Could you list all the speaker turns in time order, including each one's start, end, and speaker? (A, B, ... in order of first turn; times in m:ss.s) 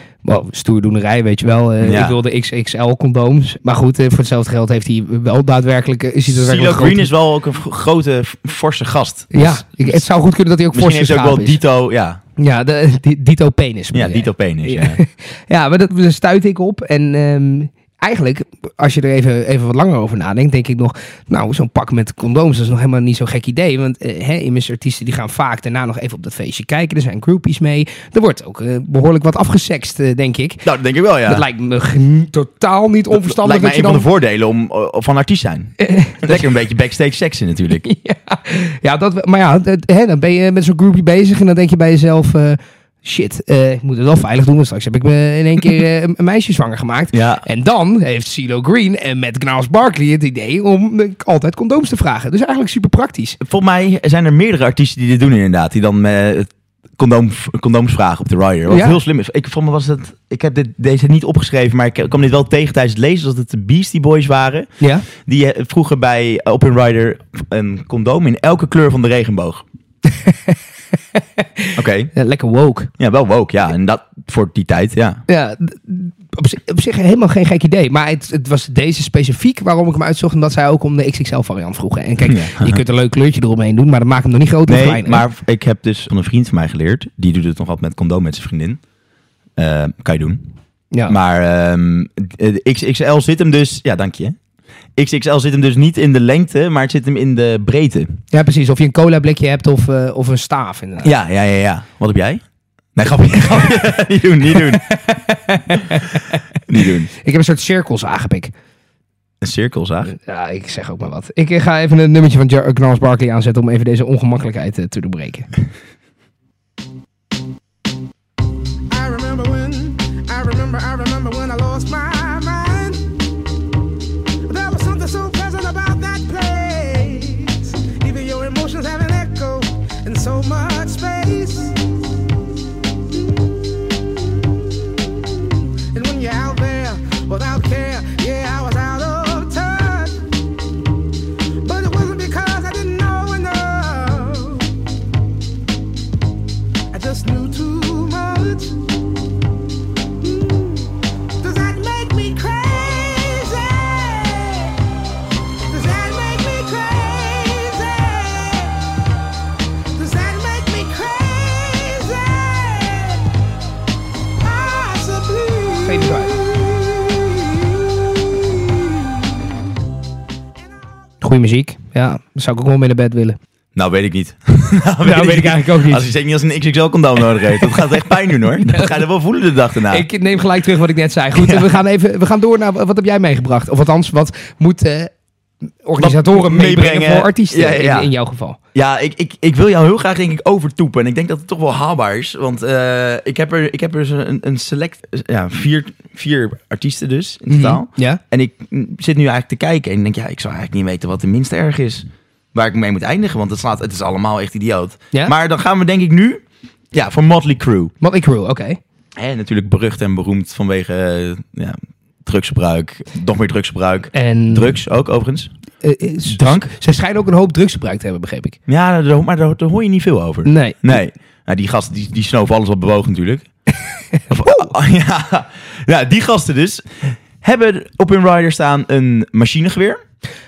0:00.2-0:07.1 A
0:01.8-0:02.2 B
0:06.3-0:10.0 B
0:09.3-0:11.6 A
0:10.7-0:12.2 B
0:12.4-0:30.7 A
0:13.9-0:15.0 B
0:30.6-0:31.4 B
0:31.3-0:34.1 A
0:33.1-0:37.9 B
0:35.8-0:36.5 A
0:37.8-0:53.4 A
0:47.1-0:47.4 B
0:53.4-1:09.6 B
0:58.7-0:59.0 A
1:04.8-1:05.1 A
1:10.2-1:10.6 A
1:11.2-1:12.9 A
1:11.8-1:12.1 B
1:13.0-1:15.2 B
1:15.3-1:25.2 A
1:22.2-1:22.8 B
1:24.7-1:28.8 B
1:29.6-1:30.4 B
1:31.1-1:34.4 B
1:35.0-1:38.2 B
1:38.3-1:41.1 A
1:41.0-1:42.4 B
1:43.0-1:44.9 B
1:44.6-1:46.4 A
1:46.7-1:47.1 B
1:47.1-1:48.5 A
1:49.4-1:50.1 B
1:50.1-1:55.5 A
1:58.9-2:03.1 C
2:04.5-2:11.8 C
2:13.1-2:20.3 C
2:21.6-2:24.9 C
2:26.9-2:28.8 C
2:30.2-2:34.8 C
2:35.7-2:38.9 C
2:40.0-2:43.3 C
2:44.4-2:49.1 C
2:45.8-2:46.4 A
2:51.2-2:53.4 A
2:53.8-3:00.1 B
2:55.0-2:56.1 A
2:57.6-2:58.0 A
2:58.5-2:59.0 A
2:59.9-3:05.1 A
3:01.4-3:01.7 B
3:05.8-3:08.6 A
3:06.0-3:08.1 B
3:08.7-3:26.4 B
3:17.5-3:18.2 A
3:26.9-3:27.9 B
3:28.0-3:28.8 A
3:29.2-3:35.5 B
3:34.1-3:34.7 A
3:35.8-3:38.6 A
3:36.3-3:36.7 B
3:38.7-3:43.5 B
3:40.4-3:41.0 A
3:44.2-3:44.7 A
3:44.3-3:50.0 B